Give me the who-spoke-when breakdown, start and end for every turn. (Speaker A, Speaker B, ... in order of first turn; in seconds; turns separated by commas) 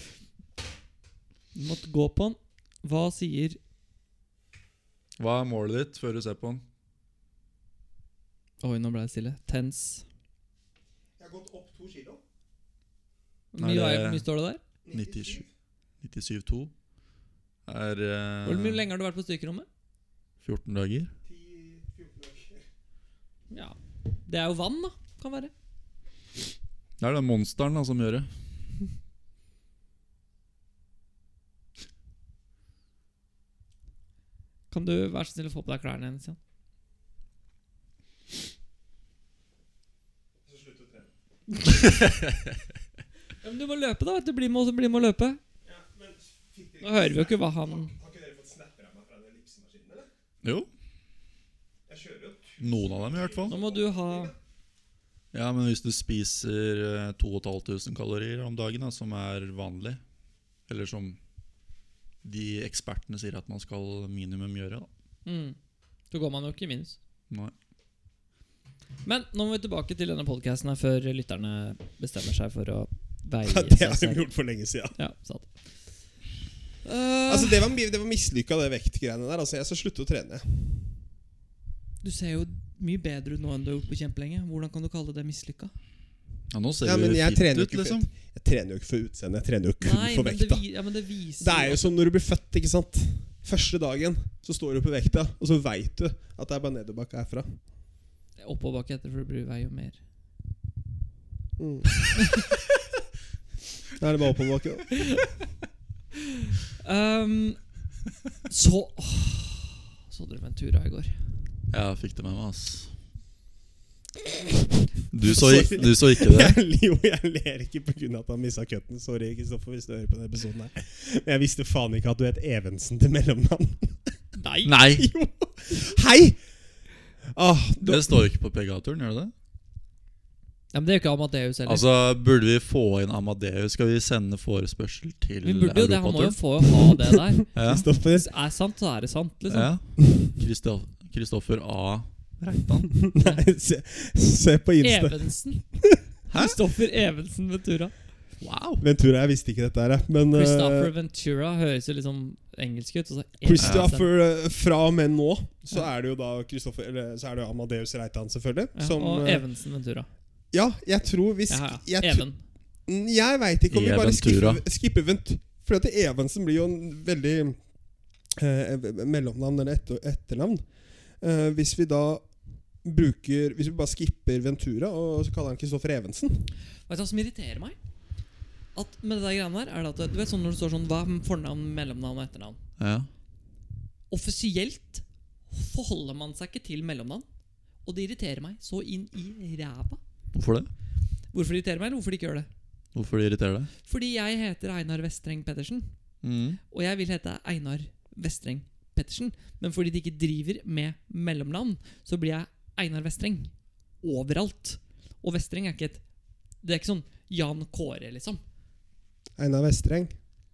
Speaker A: 1.5-3.6, Speaker B: 5.2-6.6, Speaker A: 8.6-10.0, Speaker C: 11.2-12.2, Speaker A: 13.5-14.6, Speaker B: 13.6-14.2, Speaker C: 14.8-15.5, Speaker B: 14.9-15.4, Speaker B: 16.0-16.7, Speaker B: 17.6-18.8, Speaker A: 18.4-19.7, Speaker B: 20.4-21.1, Speaker C: 21.2-22.6, Speaker A: 23.5-25.5, Speaker B: 27.0-28.3, Speaker A: 34.7-36.4, Speaker C: 40.4-41.1, Speaker A: 43.4-45.4, Speaker C: 45.6-50.1, Speaker A: 46.8-47.9, Speaker B: 50.4-50.7, Speaker C: 51.9-54.4, Speaker B: 52.6-53.5, Speaker A: 53.5-54.3, Speaker B: 55.3-60.0, Speaker B: 60.7-61.2, Speaker B: 62.2-64.9, Speaker A: 65.2-65.5, Speaker A: 66.1-67.0, Speaker A: 69.0-74.2, Speaker C: 73.4-75.0, Speaker A: 74.9-75.5, Speaker A: 76.8-77.6, Speaker C: 77.3-80.8, Speaker A: 82.0-85.7, Speaker B: 86.5-88.1, Speaker C: 86.8-90.6, Speaker A: 89.8-91.9, Speaker C: 91.4-97.6, Speaker A: 98.4-100.0, Speaker C: 101.6-101.9, Speaker C: 104.0-104.9, Speaker A: 106.8-107.6, Speaker A: 108.5-111.1, Speaker B: 111.7-112.9, Speaker C: 114.2-114.6, Speaker B: 115.1-116.5, Speaker C: 115.2-124.1, Speaker A: 124.3-124.7, Speaker B: 124.6-125.1, Speaker C: 124.9-126.4, Speaker C: 127.3-128.3, Speaker B: 127.8-129.3, Speaker A: 130.7-131.8, Speaker B: 131.7-136.4, Speaker A: 135.4-139.7, Speaker B: 137.5-137.8, Speaker C: 137.5-138.3, Speaker B: 139.5-143.1, Speaker C: 143.0-146.0, Speaker A: 144.8-145.6, Speaker A: 146.3-147.9, Speaker B: 146.3-146.6, Speaker B: 148.4-148.8, Speaker C: 148.8-150.9, Speaker A: 150.3-154.1, Speaker C: 153.4-159.4, Speaker B: 153.6-153.9, Speaker A: 158.8-160.1, Speaker C: 160.5-162.2, Speaker A: 161.5-162.4, Speaker C: 162.9-167.6, Speaker B: 163.7-164.6, Speaker C: 168.3-170.6, Speaker C: 171.2-172.2, Speaker C: 172.8-176.5, Speaker A: 176.9-177.8, Speaker A: 178.7-182.6, Speaker B: 182.8-183.1, Speaker A: 184.1-187.2, Speaker A: 187.8-190.0, Speaker B: 190.3-190.7, Speaker A: 191.3-192.5, Speaker B: 192.9-193.7, Speaker A: 193.8-195.9, Speaker B: 196.2-196.6, Speaker A: 196.7-203.5, Speaker A: 204.0-206.0, Speaker A: 206.6-208.4, Speaker C: 209.4-210.1